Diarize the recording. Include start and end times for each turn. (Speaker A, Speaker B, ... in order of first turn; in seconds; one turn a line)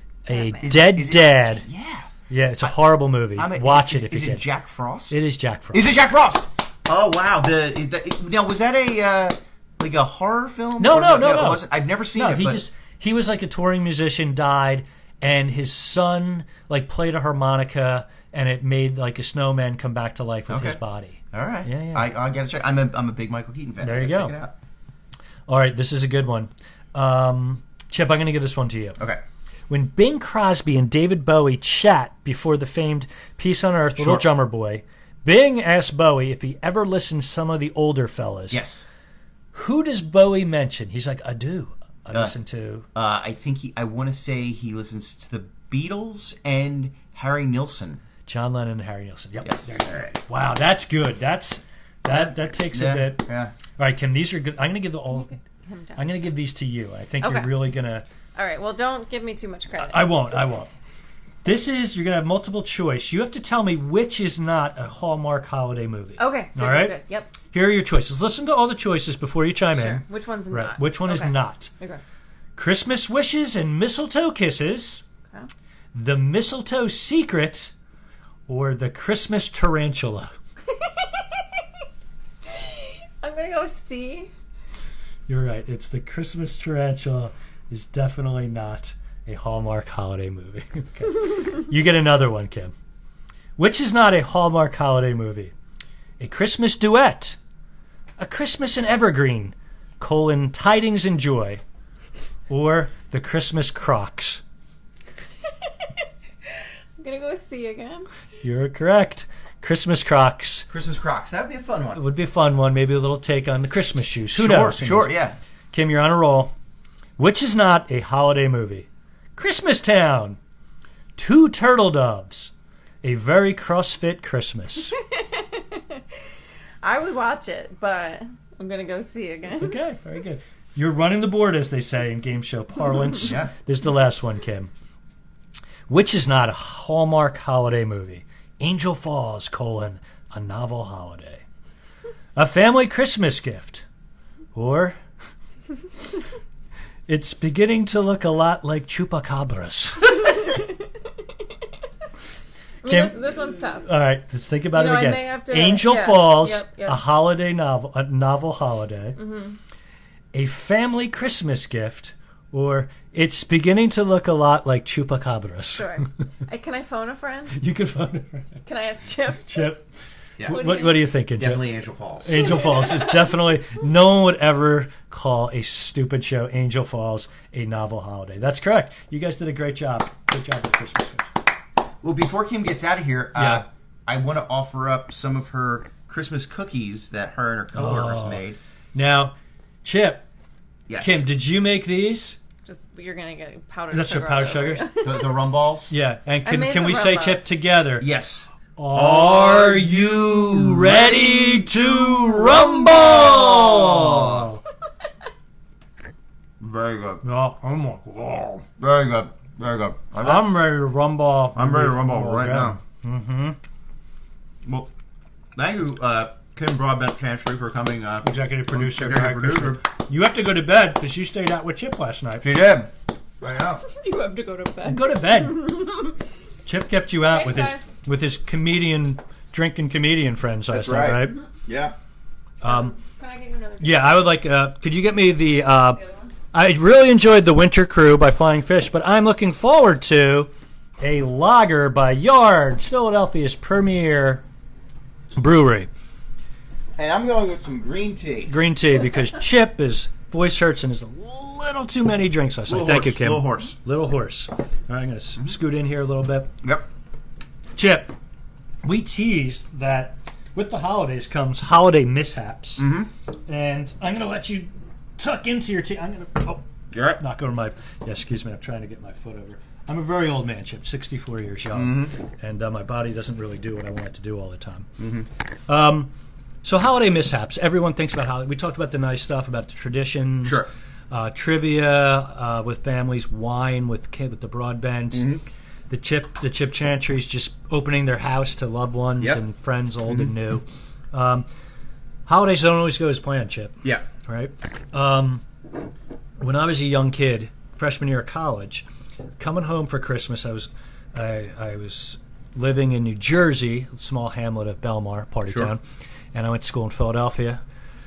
Speaker A: 0.3-1.6
Speaker B: 0.3-0.6
Speaker C: 0.6-2.1
Speaker A: 2.3-4.4
Speaker C: 3.4-5.2
Speaker A: 5.1-6.0
Speaker C: 5.7-12.6
Speaker A: 10.8-22.1
Speaker C: 20.5-20.8
Speaker C: 21.3-24.5
Speaker A: 23.8-24.4
Speaker A: 25.5-29.0
Speaker A: 29.7-38.6
Speaker C: 34.0-34.3
Speaker C: 38.5-38.9
Speaker A: 39.5-42.9
Speaker C: 43.0-48.0
Speaker A: 48.3-55.3
Speaker C: 49.4-50.2
Speaker C: 52.1-53.5
Speaker B: 55.1-56.3
Speaker A: 56.0-58.1
Speaker B: 57.2-57.5
Speaker B: 58.4-60.3
Speaker A: 59.8-60.7
Speaker A: 61.4-67.0
Speaker B: 66.2-67.3
Speaker A: 67.5-71.7
Speaker B: 69.7-72.0
Speaker A: 72.6-75.0
Speaker A: 75.9-77.7
Speaker A: 78.5-80.3
Speaker B: 80.7-81.4
Speaker B: 82.5-84.3
Speaker A: 85.3-92.7
Speaker A: 93.6-95.5
Speaker A: 96.2-97.4
Speaker A: 98.2-101.6
Speaker A: 102.5-104.4
Speaker B: 107.0-108.1
Speaker A: 108.4-110.7
Speaker C: 110.7-112.0
Speaker A: 112.0-115.1
Speaker C: 114.3-115.4
Speaker A: 115.7-116.5
Speaker A: 117.2-120.4
Speaker A: 121.2-122.5
Speaker A: 123.0-125.0
Speaker B: 125.1-126.0
Speaker B: 126.8-129.8
Speaker A: 129.6-134.7
Speaker C: 133.2-133.5
Speaker A: 135.9-141.4
Speaker A: 142.4-143.8
Speaker A: 144.5-145.0
Speaker A: 147.1-150.5
Speaker B: 152.8-153.9
Speaker A: 152.8-153.2
Speaker A: 153.8-159.2
Speaker B: 154.7-157.0
Speaker B: 159.2-159.6
Speaker A: 160.3-166.0
Speaker B: 165.8-167.6
Speaker A: 167.6-168.6
Speaker B: 168.7-169.8
Speaker A: 169.5-169.8
Speaker B: 170.5-171.0
Speaker A: 170.5-171.6
Speaker C: 171.4-172.4
Speaker A: 172.2-181.3
Speaker C: 182.0-188.6
Speaker A: 183.4-183.7
Speaker A: 187.7-190.2
Speaker C: 190.9-191.2
Speaker A: 191.0-192.4
Speaker B: 192.7-195.3
Speaker A: 193.9-194.9
Speaker C: 195.0-195.9
Speaker A: 195.9-198.1
Speaker B: 196.4-197.5
Speaker C: 198.0-204.5
Speaker A: 198.8-204.6
Speaker C: 206.6-207.2
Speaker A: 207.2-208.7
Speaker C: 208.8-210.5
Speaker A: 210.2-213.6
Speaker C: 211.6-212.8
Speaker C: 214.7-214.9
Speaker C: 215.6-219.8
Speaker A: 218.2-222.5
Speaker C: 222.4-223.8
Speaker B: 223.9-226.1
Speaker A: 224.8-225.9
Speaker A: 226.7-231.4
Speaker B: 227.3-227.8
Speaker C: 230.7-231.9
Speaker A: 232.6-232.9
Speaker B: 232.7-234.2
Speaker A: 233.8-236.0
Speaker B: 236.0-236.3
Speaker A: 236.5-244.4
Speaker A: 245.4-245.9
Speaker C: 247.0-248.5
Speaker A: 248.5-256.5
Speaker C: 252.7-253.8
Speaker A: 257.8-258.1
Speaker A: 258.8-262.9
Speaker C: 262.8-263.1
Speaker A: 263.5-266.6
Speaker C: 266.9-267.2
Speaker A: 267.2-274.9
Speaker C: 271.7-272.1
Speaker C: 275.0-275.3
Speaker A: 275.7-276.1
Speaker A: 276.6-285.3
Speaker C: 280.4-280.7
Speaker C: 285.1-285.4
Speaker A: 285.9-291.5
Speaker A: 292.3-295.4
Speaker A: 296.4-298.9
Speaker A: 299.4-305.8
Speaker C: 305.5-305.7
Speaker A: 306.3-307.6